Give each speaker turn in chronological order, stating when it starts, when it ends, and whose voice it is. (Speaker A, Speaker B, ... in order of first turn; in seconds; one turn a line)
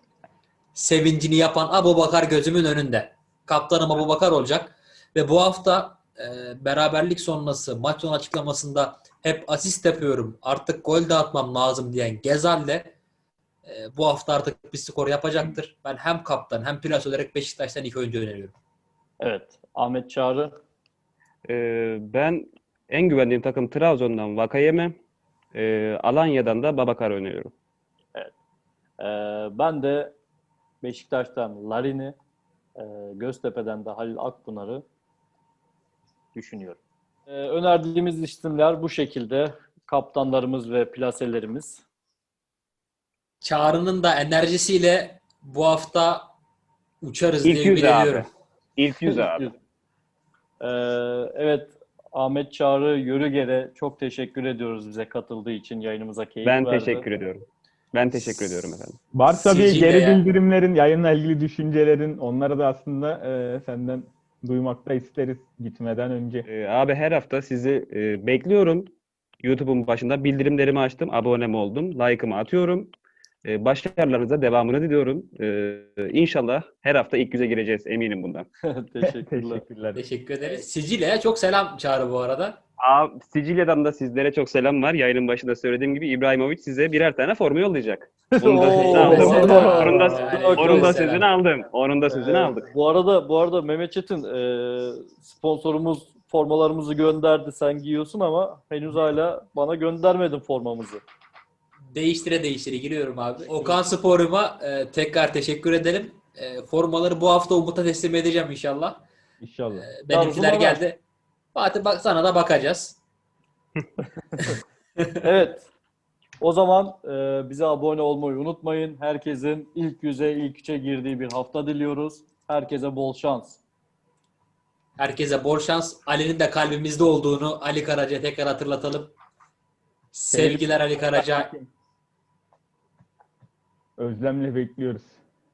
Speaker A: 0.8-12.9
Speaker A: 13.7-18.6
Speaker B: 19.2-20.6
Speaker C: 21.5-25.0
Speaker C: 25.5-27.5
Speaker B: 29.0-30.1
Speaker B: 30.8-32.2
Speaker B: 32.8-34.8
Speaker B: 36.4-41.8
Speaker A: 43.4-46.3
Speaker A: 47.0-48.3
Speaker C: 47.4-49.5
Speaker B: 49.0-49.5
Speaker B: 50.6-57.0
Speaker C: 56.5-59.0
Speaker D: 59.1-66.5
Speaker A: 59.3-60.2
Speaker C: 66.5-68.9
Speaker C: 69.4-72.9
Speaker C: 73.4-78.5
Speaker B: 78.6-79.6
Speaker D: 79.0-80.0
Speaker A: 80.0-82.6
Speaker C: 82.8-92.7
Speaker B: 88.4-91.0
Speaker A: 88.8-91.3
Speaker D: 89.2-90.0
Speaker B: 92.1-101.0
Speaker A: 101.9-109.0
Speaker D: 109.4-109.9
Speaker A: 109.8-111.0
Speaker B: 110.1-110.8
Speaker A: 111.5-113.0
Speaker B: 115.2-115.7
Speaker B: 116.4-123.6
Speaker A: 125.0-129.2
Speaker A: 130.1-131.5
Speaker D: 130.3-131.7
Speaker D: 134.0-135.2